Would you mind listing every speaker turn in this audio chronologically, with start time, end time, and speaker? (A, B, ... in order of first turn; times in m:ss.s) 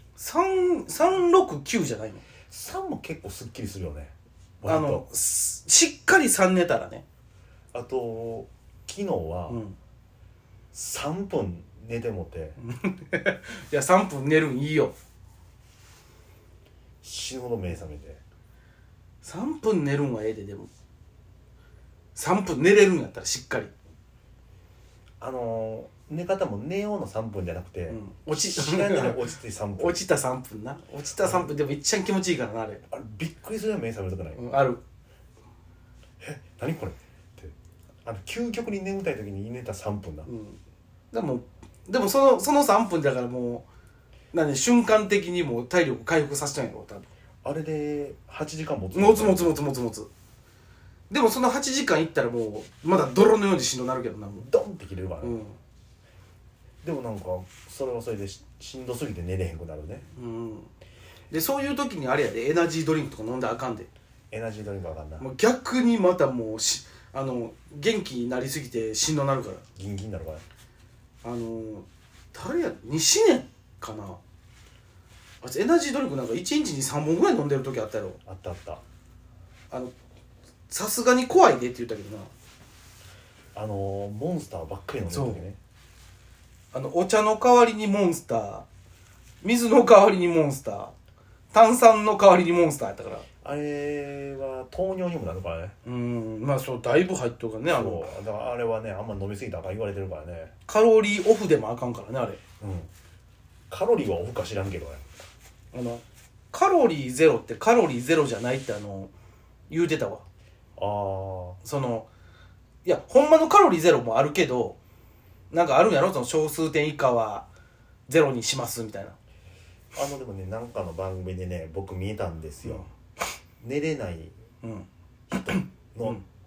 0:00.2-0:02.2 A
0:02.5-0:05.0 B
0:04.7-0:07.0 A
0:07.7-0:09.6 B
0:09.5-0:09.8 A
0:10.7-0:12.6 B
0:12.6-0:14.9 A
0:17.0-0:18.2 B
0:19.2-0:20.7 A
0:22.1-0:23.7 A
0:25.2-0:30.0 B
0:27.9-0:29.2 A
0:29.8-0:32.8 A
0:31.2-0:31.5 B
0:32.9-0:34.4 B
0:34.4-0:34.8 A
0:36.2-0:37.5 B
0:38.0-0:40.3 B
0:40.3-0:40.6 A
0:41.1-0:43.6 A
0:44.3-0:47.1 A
0:47.4-0:49.6 B
0:48.9-0:50.1 A
0:51.1-0:54.5 A
0:54.4-0:55.4 B
0:55.2-0:55.6 A
0:56.8-1:00.1 B
1:00.1-1:00.7 A
1:01.3-1:03.9 A
1:04.3-1:05.3 B
1:05.2-1:09.6 A
1:09.7-1:10.4 B
1:11.2-1:14.2 A
1:15.4-1:18.2 A
1:18.2-1:18.8 B
1:20.7-1:22.3 A
1:23.5-1:25.6 B
1:25.1-1:25.4 A
1:26.7-1:28.7 A
1:29.4-1:30.9 A
1:31.5-1:33.2 A
1:33.4-1:35.7 B
1:35.8-1:38.1 A
1:37.7-1:40.5 B
1:40.7-1:42.4 A
1:42.6-1:42.9 B
1:43.7-1:45.0 B
1:45.7-1:49.1 A
1:49.7-1:50.2 A
1:50.8-1:51.6 B
1:51.6-1:52.1 A
1:52.8-1:54.8 A
1:55.5-1:57.5 A
1:58.1-1:59.2 A
1:59.9-2:02.9 B
2:02.6-2:02.9 A
2:03.6-2:04.3 B
2:04.6-2:06.2 A
2:05.3-2:06.2 B